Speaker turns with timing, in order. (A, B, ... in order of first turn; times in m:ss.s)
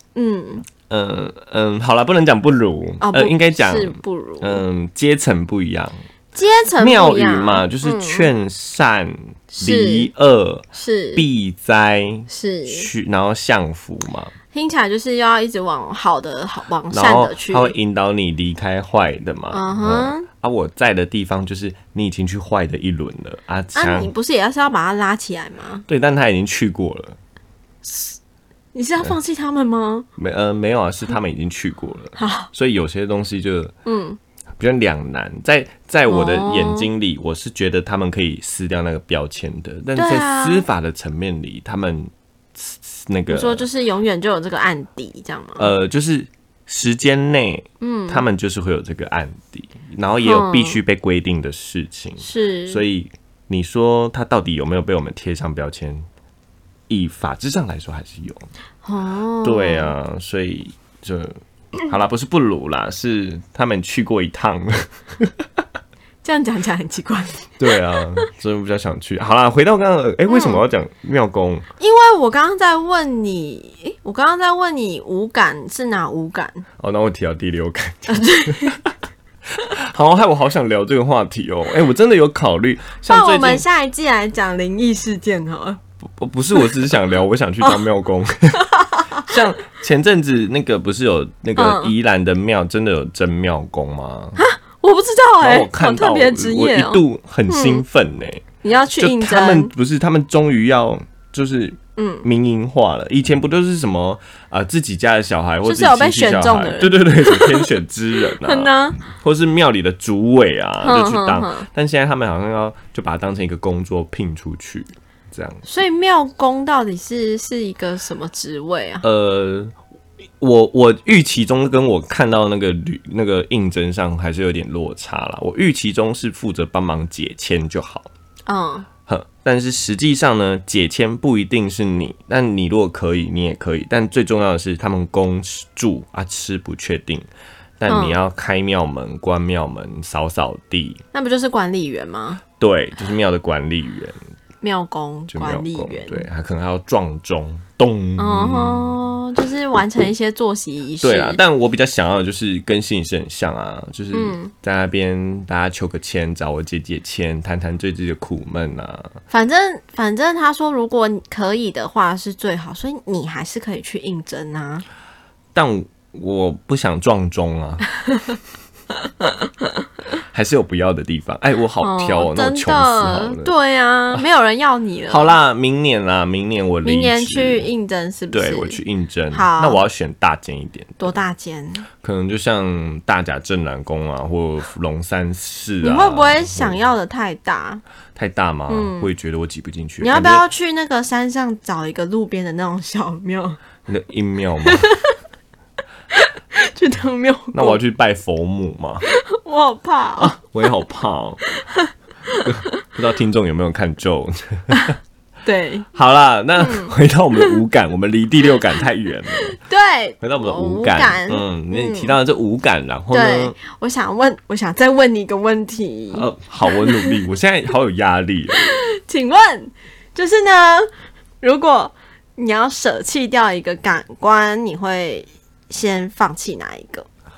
0:00.2-0:00.6 A
0:00.9-0:06.0 B
0:03.0-0:04.6 A
0:06.4-0:08.3 A
0:06.8-0:14.3 B
0:09.5-0:10.1 A
0:10.7-0:11.2 A
0:12.3-0:12.9 A
0:14.5-0:17.8 A
0:16.9-0:24.1 B
0:19.5-0:20.3 A
0:23.8-0:25.9 A
0:25.9-0:27.2 B
0:27.8-0:28.2 A
0:28.7-0:30.1 A
0:30.2-0:33.7 B
0:32.2-0:32.5 A
0:33.8-0:34.2 A
0:34.6-0:43.7 B
0:36.1-0:36.9 A
0:40.0-0:40.7 A
0:43.3-0:45.7 A
0:45.6-0:56.1 B
0:47.8-0:48.3 A
0:50.2-0:50.8 A
0:52.2-0:52.8 A
0:56.9-0:58.5 B
0:58.8-0:59.9 A
0:59.4-1:05.6 B
1:06.2-1:07.7 A
1:07.6-1:11.6 B
1:10.3-1:10.6 A
1:11.8-1:16.6 A
1:16.8-1:18.9 B
1:18.1-1:18.8 A
1:19.6-1:23.6 B
1:23.1-1:25.8 A
1:26.0-1:28.7 B
1:28.7-1:29.3 A
1:29.2-1:34.4 B
1:31.6-1:31.9 A
1:34.4-1:37.8 A
1:35.4-1:38.4 B
1:38.6-1:39.7 A
1:39.0-1:55.6 B
1:42.0-1:42.3 A
1:45.6-1:49.0 A
1:50.8-1:51.7 A
1:55.7-1:59.0 A
1:59.0-1:59.8 B
2:00.4-2:08.1 B
2:08.5-2:08.9 A
2:09.1-2:17.3 B
2:17.8-2:21.0 B
2:17.9-2:18.2 A
2:21.1-2:22.4 A
2:22.6-2:24.2 B
2:24.6-2:26.3 A
2:25.3-2:29.0 B
2:28.2-2:31.4 A
2:31.0-2:39.2 B
2:34.1-2:34.5 A
2:39.3-2:44.8 A
2:45.5-2:47.8 B
2:50.2-2:53.5 B
2:51.8-2:55.4 A
2:55.1-2:57.7 B
2:56.8-2:58.8 A
2:58.3-3:01.2 B
2:59.3-2:59.8 A
3:01.0-3:01.9 A
3:02.0-3:06.8 B
3:05.8-3:07.8 A
3:08.2-3:10.4 B
3:08.7-3:09.1 A
3:10.0-3:13.6 A
3:13.9-3:14.9 B
3:14.6-3:15.1 A
3:16.2-3:17.8 A
3:17.5-3:19.0 B
3:19.1-3:20.4 A
3:20.2-3:21.4 B
3:21.6-3:22.8 A
3:22.4-3:24.9 B
3:24.7-3:25.9 A
3:25.9-3:29.6 B
3:26.6-3:27.6 A
3:29.4-3:32.2 A
3:30.2-3:33.6 B
3:33.1-3:37.2 A
3:36.1-3:38.7 B
3:38.6-3:40.9 A
3:41.4-3:47.1 A